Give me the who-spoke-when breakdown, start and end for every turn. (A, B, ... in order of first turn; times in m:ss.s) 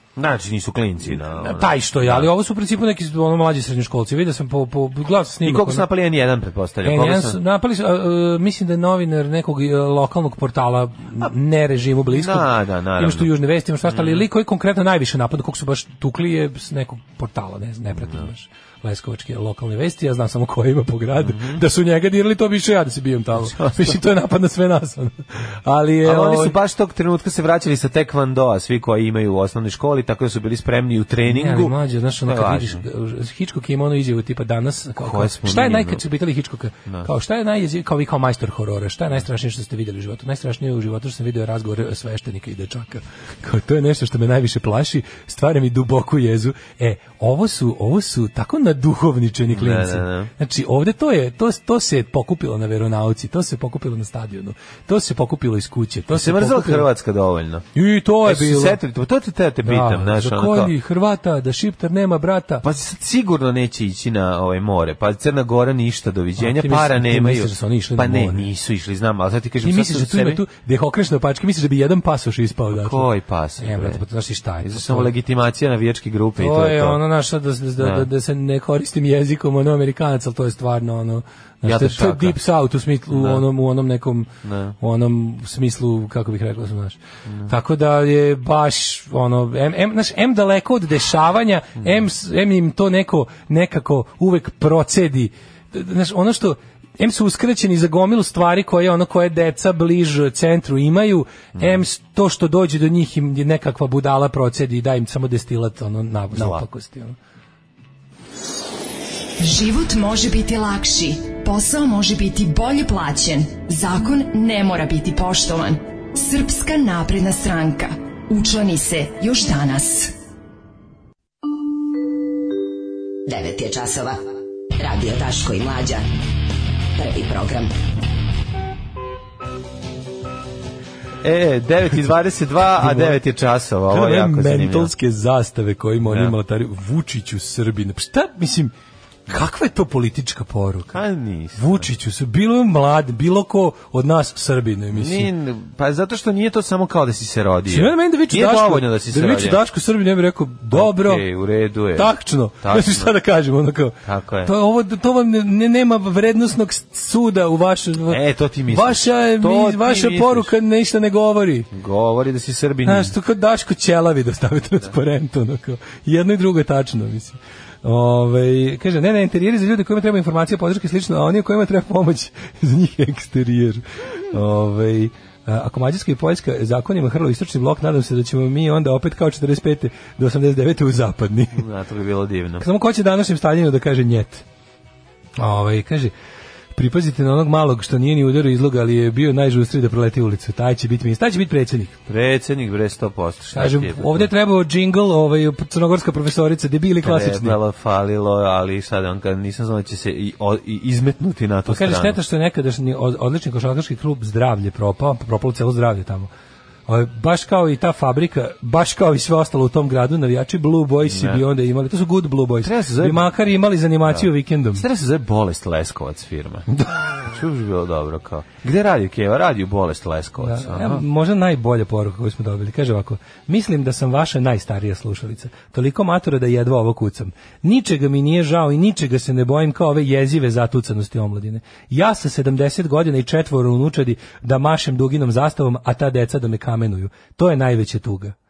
0:00.2-0:02.3 A
0:01.1-0:05.9 B
0:05.4-0:07.4 A
0:06.8-0:26.6 B
0:12.1-0:13.3 A
0:13.8-0:14.2 A
0:21.2-0:21.6 A
0:23.4-0:24.0 A
0:26.0-0:32.8 A
0:31.3-0:56.9 B
0:35.0-0:36.0 A
0:49.5-0:50.3 A
0:56.1-0:57.6 A
0:57.7-0:58.8 B
0:58.2-1:00.7 A
0:59.6-1:02.6 B
1:02.6-1:10.4 A
1:06.4-1:08.5 B
1:09.6-1:13.1 B
1:12.7-1:14.0 A
1:13.6-1:15.1 B
1:14.6-1:17.0 A
1:16.4-1:24.3 B
1:17.8-1:18.1 A
1:21.6-1:22.4 A
1:23.1-1:23.4 A
1:24.4-1:24.8 A
1:24.8-1:47.2 B
1:27.3-1:27.5 A
1:46.3-1:46.6 A
1:49.4-2:00.1 C
2:03.3-2:06.0 D
2:07.0-2:07.7 D
2:11.2-2:14.9 A
2:12.8-2:13.2 B
2:13.9-2:18.7 B
2:16.1-2:16.3 A
2:19.3-2:21.0 B
2:20.9-2:21.9 A
2:21.6-2:25.3 B
2:24.9-2:29.6 A
2:27.7-2:31.2 B
2:30.7-2:33.1 A
2:31.9-2:41.7 B
2:34.0-2:34.5 A
2:38.1-2:40.5 A
2:41.7-2:43.1 A
2:42.8-3:01.6 B
3:01.5-3:02.6 A
3:02.6-3:04.4 B
3:05.4-3:06.1 B
3:06.7-3:12.0 B
3:12.1-3:14.3 A
3:13.5-3:17.6 B
3:17.0-3:22.2 A
3:21.7-3:26.3 B
3:26.9-3:34.8 B
3:31.0-3:31.4 A
3:32.6-3:33.3 A
3:34.1-3:41.0 A
3:40.4-3:58.3 B